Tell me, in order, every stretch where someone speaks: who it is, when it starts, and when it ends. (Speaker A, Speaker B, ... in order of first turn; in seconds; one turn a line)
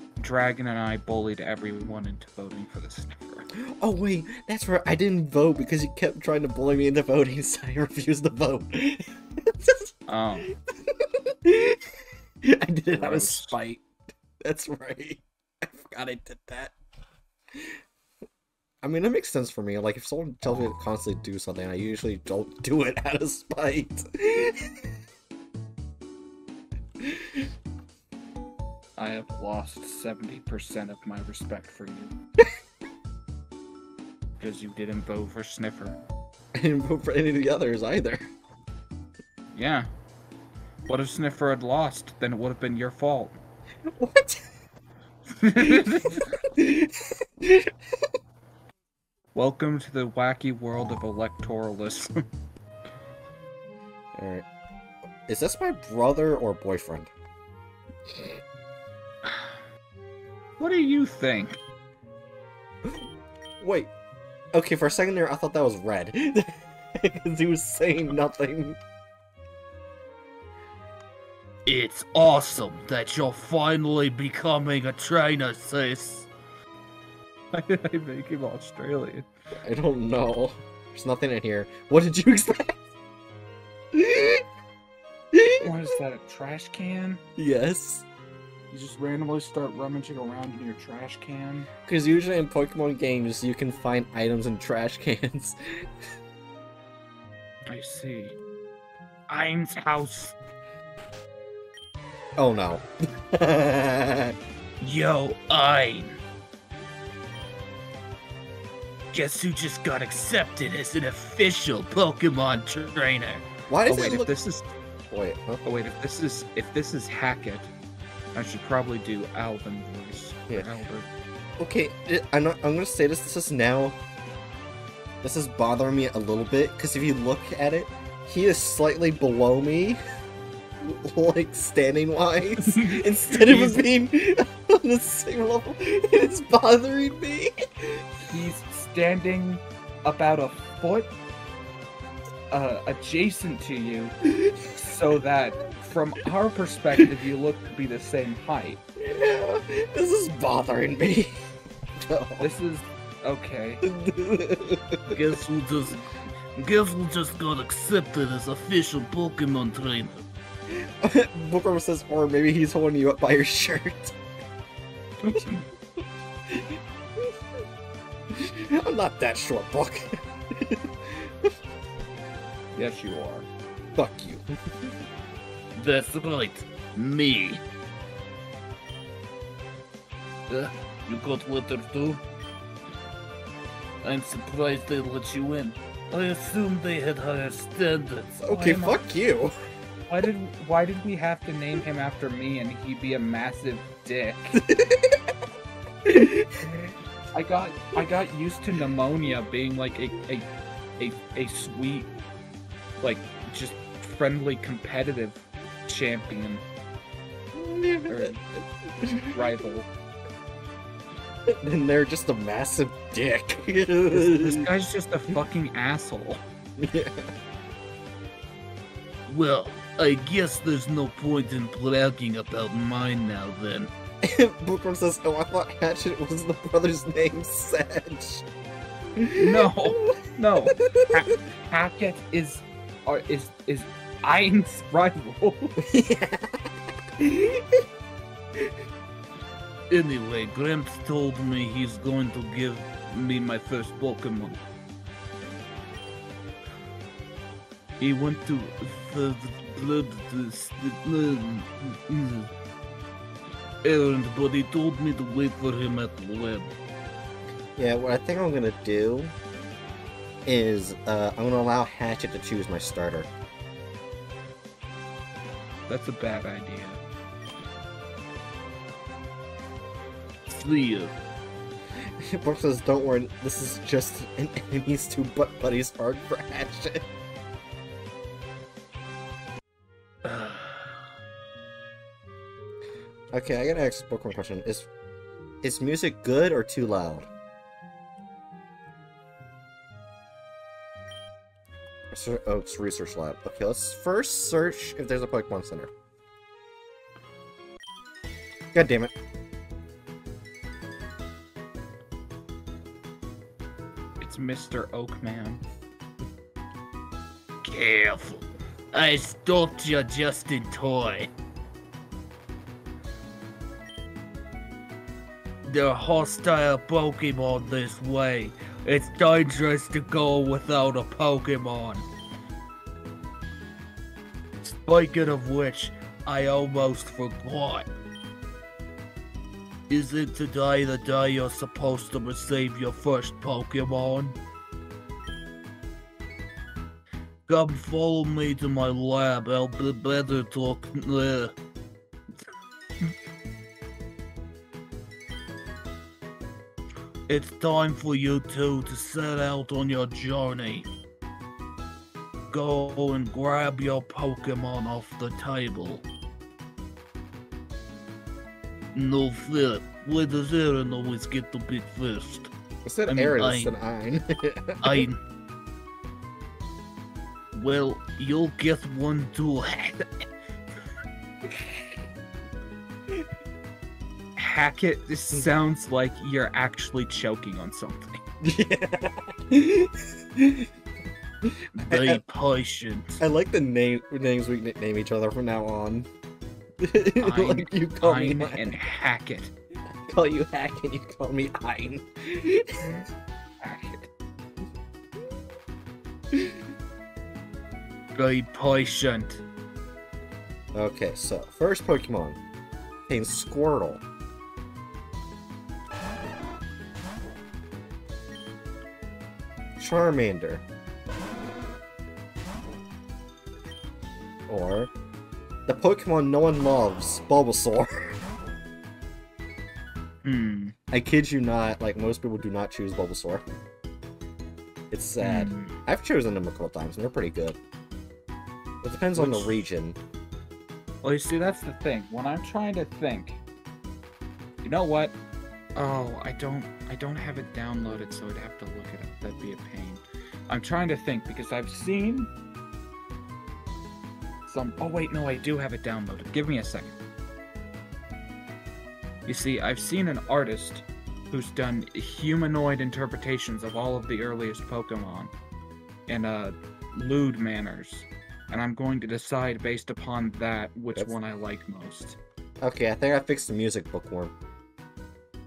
Speaker A: 0.2-3.5
Speaker B: 3.6-9.9
Speaker A: 10.1-10.5
Speaker B: 10.7-13.8
Speaker A: 12.9-13.7
Speaker B: 14.4-16.7
Speaker B: 17.5-17.8
Speaker B: 18.8-24.8
Speaker B: 27.0-27.5
Speaker A: 29.0-32.1
Speaker A: 34.4-36.0
Speaker B: 36.5-38.2
Speaker A: 39.5-39.9
Speaker A: 40.9-43.4
Speaker B: 43.9-44.5
Speaker A: 45.4-46.3
Speaker B: 45.6-47.7
Speaker A: 49.3-52.2
Speaker B: 54.1-54.5
Speaker B: 55.3-57.1
Speaker B: 58.1-58.4
Speaker A: 60.6-61.6
Speaker B: 63.6-63.9
Speaker B: 64.5-68.8
Speaker C: 71.7-76.3
Speaker A: 77.5-79.3
Speaker B: 79.6-82.8
Speaker B: 83.9-84.4
Speaker B: 85.3-85.7
Speaker A: 85.6-87.2
Speaker B: 87.3-88.0
Speaker A: 88.7-91.7
Speaker B: 91.8-95.9
Speaker A: 97.7-98.3
Speaker A: 99.3-100.3
Speaker B: 102.4-104.3
Speaker A: 104.8-106.1
Speaker C: 109.1-113.4
Speaker B: 113.7-114.3
Speaker A: 113.8-114.7
Speaker B: 115.1-115.6
Speaker A: 115.6-117.7
Speaker A: 118.3-121.1
Speaker B: 121.6-124.0
Speaker B: 125.2-130.0
Speaker B: 130.8-138.1
Speaker A: 132.6-133.8
Speaker A: 138.2-141.1
Speaker A: 142.5-144.1
Speaker B: 144.2-144.9
Speaker A: 144.8-148.8
Speaker B: 149.0-151.4
Speaker B: 152.0-152.5
Speaker A: 152.4-153.8
Speaker B: 153.8-155.1
Speaker C: 155.1-156.0
Speaker C: 156.6-160.2
Speaker B: 160.7-164.2
Speaker A: 165.2-165.6
Speaker B: 166.5-167.3
Speaker B: 168.3-171.5
Speaker A: 172.7-173.5
Speaker B: 173.9-174.9
Speaker C: 175.7-177.6
Speaker C: 180.5-182.2
Speaker C: 184.0-188.4
Speaker B: 188.4-189.5
Speaker A: 188.5-188.9
Speaker A: 190.1-194.6
Speaker B: 194.6-195.3
Speaker B: 196.0-196.8
Speaker A: 197.3-200.5
Speaker A: 201.0-202.1
Speaker A: 203.0-206.6
Speaker B: 207.5-209.4
Speaker A: 208.1-208.4
Speaker A: 209.1-209.9
Speaker B: 211.5-214.7
Speaker A: 214.1-216.4
Speaker B: 216.8-217.3
Speaker C: 219.3-223.9
Speaker B: 224.2-228.4
Speaker B: 229.2-230.2
Speaker A: 229.4-235.8
Speaker B: 230.7-231.2
Speaker B: 235.8-237.8
Speaker C: 239.9-244.6
Speaker C: 248.0-252.5
Speaker C: 253.8-256.7
Speaker B: 257.8-259.3
Speaker B: 260.4-263.3
Speaker A: 265.9-267.0
Speaker C: 270.5-271.1
Speaker B: 272.2-277.1
Speaker C: 280.2-281.0
Speaker B: 283.3-284.9
Speaker B: 285.6-287.3
Speaker B: 292.1-295.9
Speaker B: 298.7-299.1
Speaker A: 304.2-305.6
Speaker C: 307.6-311.3
Speaker C: 315.6-322.0
Speaker C: 324.6-327.9
Speaker C: 329.9-334.4
Speaker C: 337.5-341.5
Speaker C: 347.3-350.9
Speaker C: 352.5-356.0
Speaker C: 358.9-362.5
Speaker B: 362.9-365.1
Speaker C: 363.1-363.7
Speaker C: 364.8-365.2
Speaker C: 367.5-370.1
Speaker A: 374.4-378.2
Speaker B: 378.4-380.7
Speaker B: 381.4-382.2
Speaker C: 381.8-383.2
Speaker B: 383.2-386.1
Speaker B: 386.8-388.7
Speaker A: 387.2-389.5
Speaker B: 390.1-393.1
Speaker A: 393.6-394.1
Speaker B: 396.3-396.6
Speaker C: 398.1-399.4
Speaker B: 400.7-402.4
Speaker B: 403.1-404.0
Speaker B: 409.8-410.6
Speaker B: 414.5-414.9
Speaker B: 415.6-418.2
Speaker A: 420.2-420.7
Speaker B: 420.9-423.4
Speaker B: 424.9-427.6
Speaker A: 425.2-425.8
Speaker B: 428.8-430.0
Speaker A: 429.1-429.6
Speaker A: 431.0-433.4
Speaker A: 434.6-435.2
Speaker A: 435.8-442.3
Speaker A: 444.4-447.0
Speaker A: 449.2-455.3
Speaker A: 456.1-462.2
Speaker B: 462.6-464.3